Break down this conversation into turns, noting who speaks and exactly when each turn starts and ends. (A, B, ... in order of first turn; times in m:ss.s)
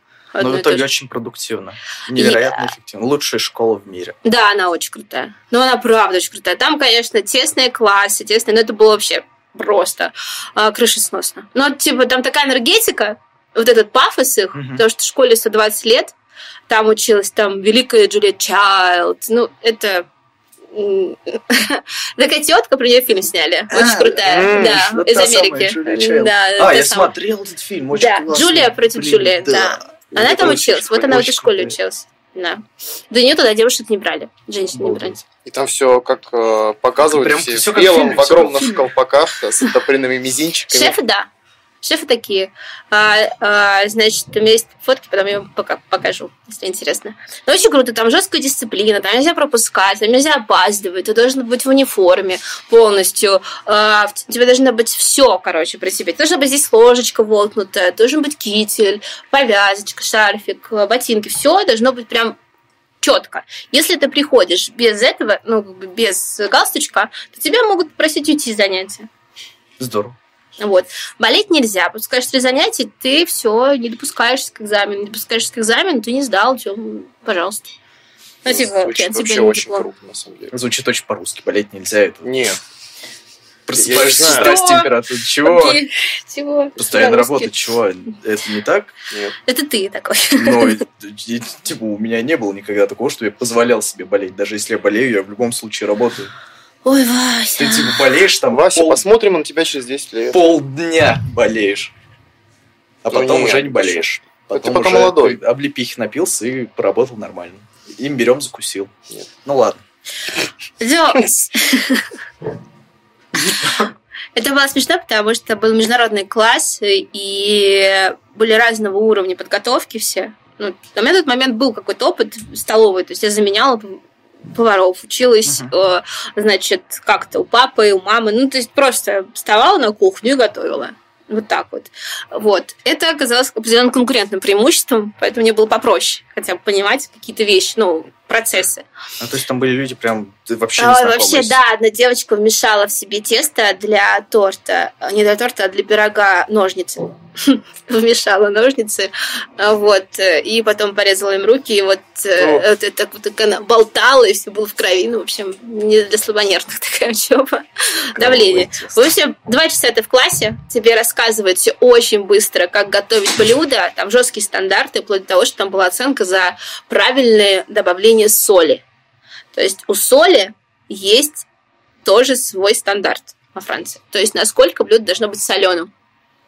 0:00.3-0:00.8 A
0:00.4-0:04.2 B
0:02.1-0:02.7 A
0:04.2-0:16.1 A
0:14.5-0:14.8 B
0:16.7-0:20.0 A
0:20.7-0:27.1 A
0:23.7-0:31.7 B
0:24.3-0:24.8 C
0:27.9-0:35.2 A
0:34.7-0:35.2 B
0:35.4-0:41.0 C
0:37.0-0:38.9 B
0:40.7-0:41.3 A
0:41.8-1:02.4 A
1:03.0-1:09.1 A
1:09.8-1:10.2 B
1:10.6-1:17.7 A
1:18.4-1:19.9 A
1:18.4-1:20.5 C
1:20.5-1:22.3 B
1:22.2-1:22.6 C
1:23.7-1:25.8 B
1:23.7-1:24.5 C
1:24.3-1:27.6 A
1:26.8-1:28.9 B
1:29.1-1:29.4 C
1:29.4-1:30.8 A
1:30.4-1:36.3 B
1:36.8-1:38.0 A
1:37.6-1:39.0 B
1:38.5-1:40.4 C
1:40.3-1:41.9 B
1:43.0-1:48.9 B
1:43.1-1:45.4 C
1:49.4-1:49.8 B
1:50.8-1:52.2 A
1:53.5-1:53.8 A
1:54.4-2:18.8 A
2:19.2-2:21.6 B
2:20.8-2:48.8 A
2:38.1-2:39.1 B
2:49.5-2:51.4 A
2:52.0-2:55.9 A